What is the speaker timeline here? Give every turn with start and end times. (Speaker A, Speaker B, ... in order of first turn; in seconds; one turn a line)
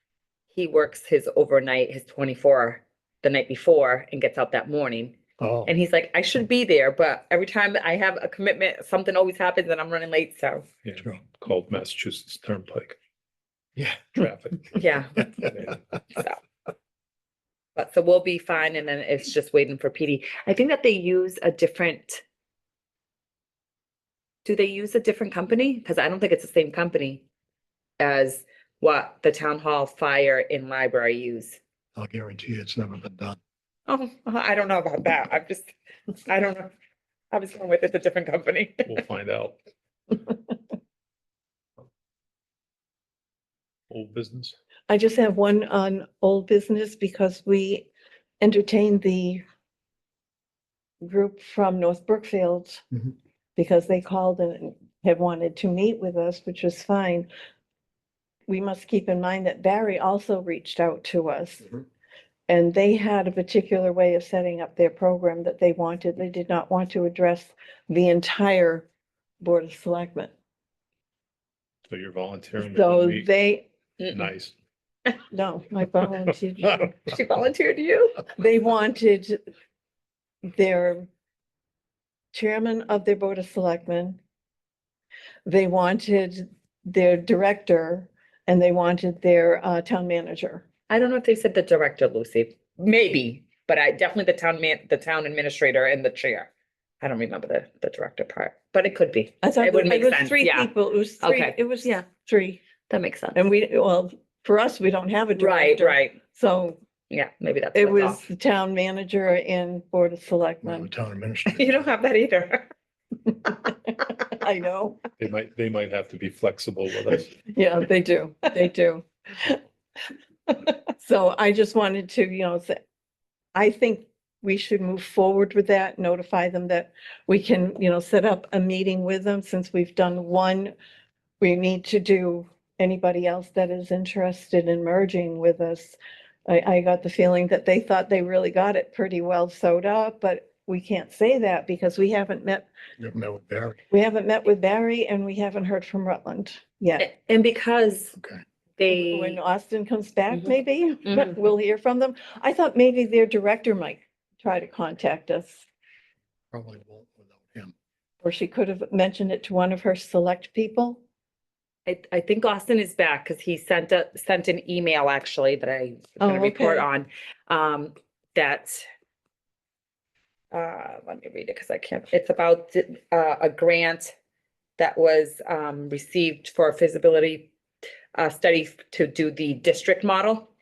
Speaker A: 0.5-10.6
Speaker B: 5.4-5.7
Speaker C: 10.8-12.9
Speaker B: 11.0-11.2
Speaker B: 13.8-14.1
Speaker C: 14.1-14.8
Speaker A: 14.7-15.5
Speaker C: 15.3-15.8
Speaker A: 17.8-22.2
Speaker A: 24.4-27.2
Speaker A: 28.0-31.6
Speaker B: 31.9-33.4
Speaker A: 33.9-35.7
Speaker A: 36.2-36.7
Speaker A: 37.3-39.0
Speaker C: 38.9-39.5
Speaker C: 43.9-44.5
Speaker D: 44.9-47.9
Speaker D: 48.4-49.4
Speaker D: 51.0-52.8
Speaker D: 53.5-57.3
Speaker D: 58.5-61.7
Speaker D: 62.5-68.8
Speaker D: 69.4-70.3
Speaker C: 71.9-73.3
Speaker D: 72.6-73.7
Speaker C: 74.0-74.5
Speaker D: 75.3-77.0
Speaker A: 77.1-78.3
Speaker D: 78.4-79.4
Speaker D: 80.5-81.1
Speaker D: 82.3-84.2
Speaker D: 85.5-90.6
Speaker A: 90.9-96.5
Speaker A: 97.0-102.0
Speaker D: 99.4-102.6
Speaker A: 102.9-103.4
Speaker D: 103.3-106.8
Speaker A: 105.3-106.2
Speaker A: 107.1-108.2
Speaker D: 107.7-110.9
Speaker B: 110.6-111.9
Speaker A: 111.5-112.7
Speaker D: 114.1-115.0
Speaker C: 115.2-117.3
Speaker D: 117.5-119.6
Speaker D: 120.5-122.8
Speaker D: 123.5-130.7
Speaker D: 131.4-142.7
Speaker B: 143.0-143.8
Speaker D: 143.9-147.1
Speaker A: 147.0-148.2
Speaker B: 148.2-148.4
Speaker A: 148.8-149.4
Speaker D: 148.9-155.6
Speaker B: 156.5-157.7
Speaker D: 158.2-161.0
Speaker A: 161.8-168.8
Speaker D: 166.2-166.8
Speaker A: 170.5-174.1
Speaker A: 174.8-177.5
Speaker A: 178.1-180.5